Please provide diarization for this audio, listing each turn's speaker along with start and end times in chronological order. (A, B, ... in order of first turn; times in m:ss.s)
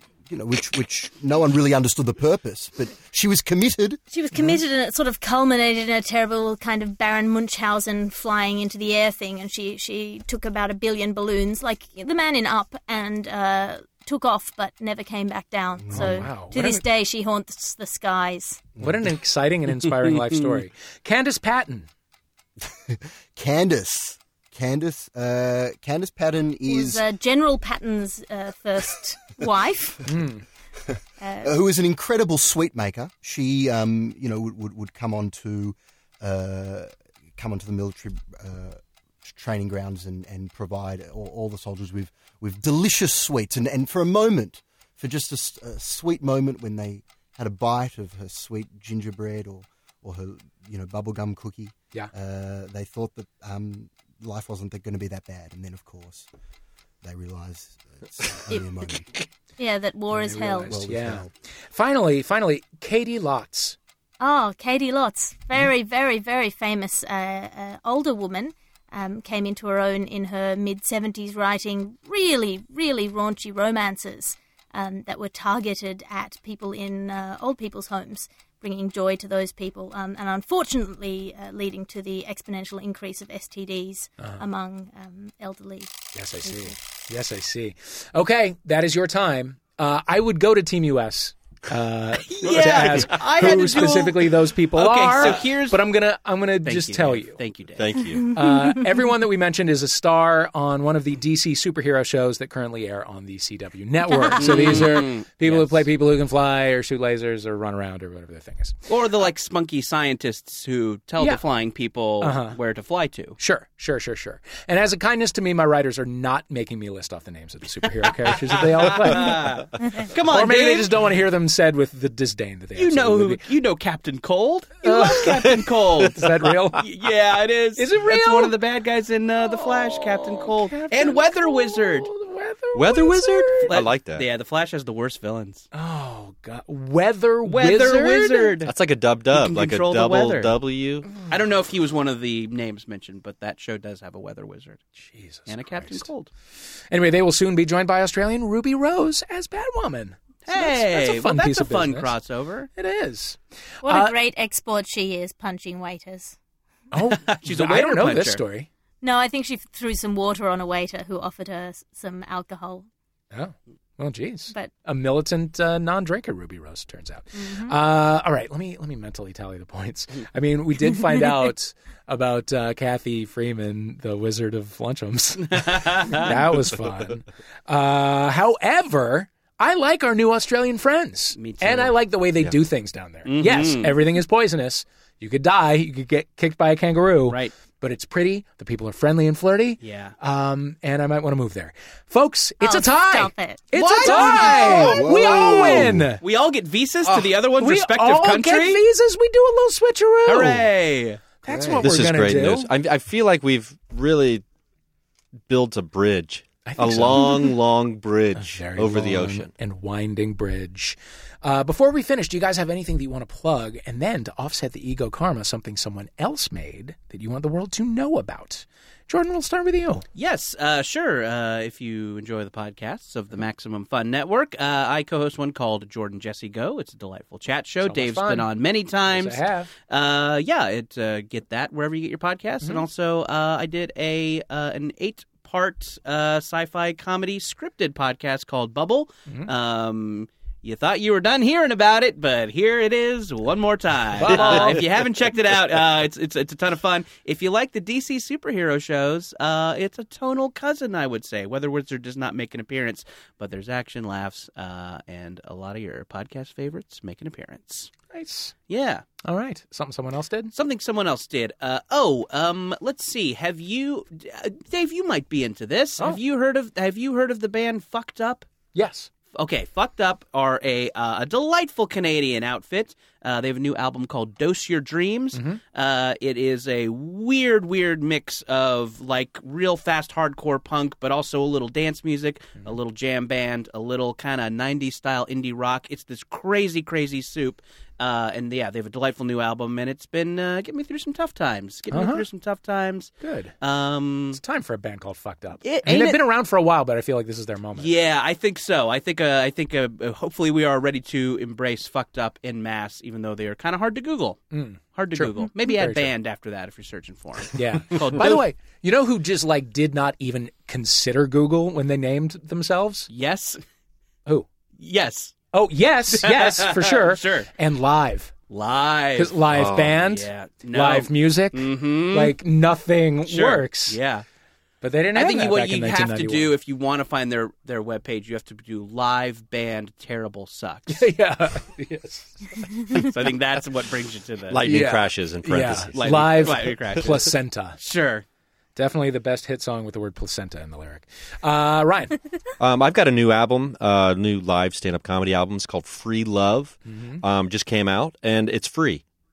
0:00.3-0:04.0 A
0:04.1-0:18.6 B
0:04.3-0:04.6 C
0:15.8-0:16.3 A
0:15.9-0:16.8 C
0:18.8-0:21.9 C
0:18.8-0:19.0 A
0:20.0-0:20.6 D
0:22.7-0:27.0 A
0:26.7-0:30.0 B
0:30.1-0:30.4 C
0:30.9-0:56.3 A
0:31.2-0:31.6 B
0:57.0-0:59.1 A
0:59.6-1:00.8 B
1:00.1-1:03.8 C
1:00.7-1:01.3 A
1:04.2-1:26.8 B
1:26.1-1:37.4 C
1:32.3-1:35.9 D
1:36.6-1:37.8 D
1:37.8-1:38.3 E
1:38.1-1:38.8 B
1:38.3-1:48.8 C
1:44.1-1:44.8 B
1:44.4-1:45.8 D
1:48.9-1:53.4 D
1:52.2-1:52.6 C
1:53.4-1:59.4 C
1:58.2-2:00.9 D
2:00.3-2:03.4 C
2:02.8-2:12.1 D
2:04.8-2:06.8 C
2:07.8-2:08.6 C
2:09.4-2:13.7 C
2:12.7-2:14.3 E
2:13.7-2:15.7 D
2:15.7-2:18.6 C
2:17.4-2:18.7 D
2:18.6-2:21.2 E
2:19.3-2:20.6 D
2:21.2-2:24.8 D
2:25.0-2:26.1 C
2:25.5-2:26.3 D
2:26.9-2:32.1 C
2:30.5-2:32.7 D
2:32.8-2:34.2 C
2:33.8-2:36.4 B
2:36.9-2:38.7 C
2:37.1-2:38.4 D
2:39.0-2:42.9 B
2:43.3-3:16.2 C
2:47.3-2:47.8 B
2:55.5-2:56.3 D
3:01.4-3:02.0 D
3:03.3-3:04.0 D
3:07.3-3:07.5 D
3:09.8-3:10.2 D
3:12.6-3:14.4 B
3:13.7-3:18.8 D
3:14.3-3:16.1 A
3:17.1-3:20.6 C
3:20.3-3:21.2 D
3:21.4-3:22.7 C
3:21.5-3:21.9 A
3:21.8-3:24.4 E
3:25.5-3:29.5 E
3:26.7-3:27.5 C
3:28.4-3:40.1 C
3:40.2-4:17.9 D
3:47.8-3:48.5 C
3:49.1-3:49.7 C
4:04.2-4:04.8 C
4:04.3-4:04.7 E
4:18.1-4:18.5 C
4:18.7-4:19.0 D
4:19.2-4:20.5 C
4:20.5-4:28.5 D
4:28.8-4:29.1 C
4:29.3-4:54.4 D
4:35.3-4:35.6 C
4:51.9-4:52.2 C
4:53.2-4:53.5 C
4:54.3-4:57.9 C
4:55.6-4:56.2 D
4:57.8-5:04.4 D
5:04.5-5:06.1 C
5:05.0-5:08.4 D
5:07.5-5:13.1 C
5:13.1-5:13.6 D
5:14.8-5:15.4 D
5:15.5-5:18.3 C
5:16.1-5:17.5 D
5:18.5-5:19.4 D
5:19.2-5:24.0 C
5:19.5-5:20.0 E
5:20.0-5:22.4 D
5:23.3-5:24.2 D
5:24.8-5:26.6 C
5:25.1-5:31.1 D
5:30.9-5:33.0 C
5:32.9-5:34.6 D
5:34.5-5:36.7 E
5:34.6-5:37.8 C
5:35.9-5:38.2 D
5:38.8-5:42.2 C
5:42.6-5:49.0 E
5:46.9-5:47.2 C